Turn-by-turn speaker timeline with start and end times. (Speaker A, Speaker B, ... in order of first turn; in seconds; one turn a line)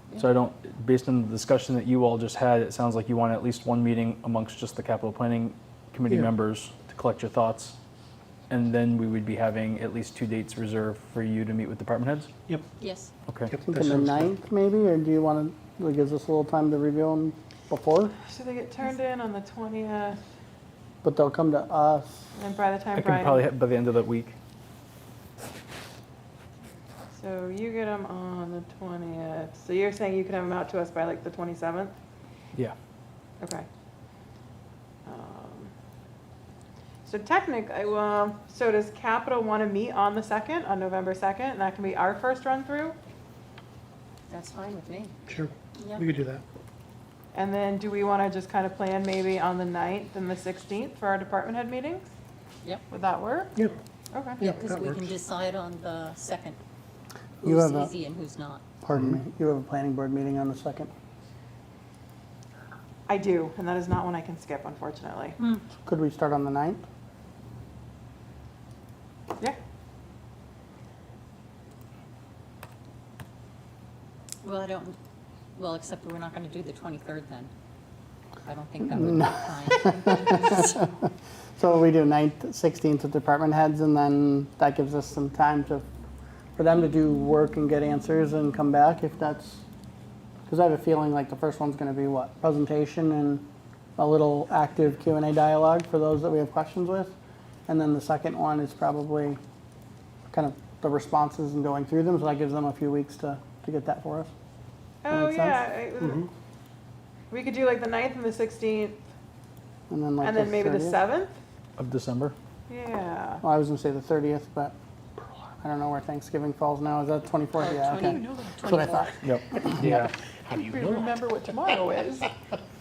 Speaker A: 0.2-7.8
Speaker A: 8.5-12.3
Speaker B: 12.8-13.1
Speaker C: 13.5-14.3
Speaker D: 13.7-18.1
Speaker E: 18.3-20.2
Speaker D: 21.0-22.2
Speaker E: 22.4-23.4
Speaker A: 23.0-24.4
Speaker E: 27.1-31.9
Speaker E: 33.4-33.7
Speaker E: 35.1-35.7
Speaker E: 37.1-43.0
Speaker B: 44.3-45.1
Speaker C: 45.3-46.4
Speaker B: 45.8-46.0
Speaker E: 47.3-52.1
Speaker E: 52.9-53.5
Speaker E: 54.1-54.4
Speaker C: 54.4-55.1
Speaker B: 54.5-56.6
Speaker D: 57.4-57.9
Speaker B: 57.4-58.6
Speaker D: 58.8-60.9
Speaker E: 63.1-65.4
Speaker B: 65.4-65.6
Speaker D: 65.8-66.8
Speaker B: 74.4-75.0
Speaker B: 75.6-77.5
Speaker B: 78.4-80.8
Speaker D: 78.9-80.9
Speaker D: 81.6-85.9
Speaker D: 86.6-89.6
Speaker D: 90.5-93.5
Speaker D: 94.0-97.1
Speaker D: 97.7-99.4
Speaker D: 100.3-104.3
Speaker E: 105.0-106.3
Speaker D: 105.1-105.6
Speaker C: 106.0-106.3
Speaker E: 107.3-109.0
Speaker D: 109.9-111.0
Speaker E: 110.2-111.3
Speaker A: 111.8-112.3
Speaker E: 112.7-113.4
Speaker D: 113.4-120.0
Speaker B: 117.6-119.2
Speaker A: 119.2-120.1
Speaker C: 120.4-122.0
Speaker E: 120.6-122.3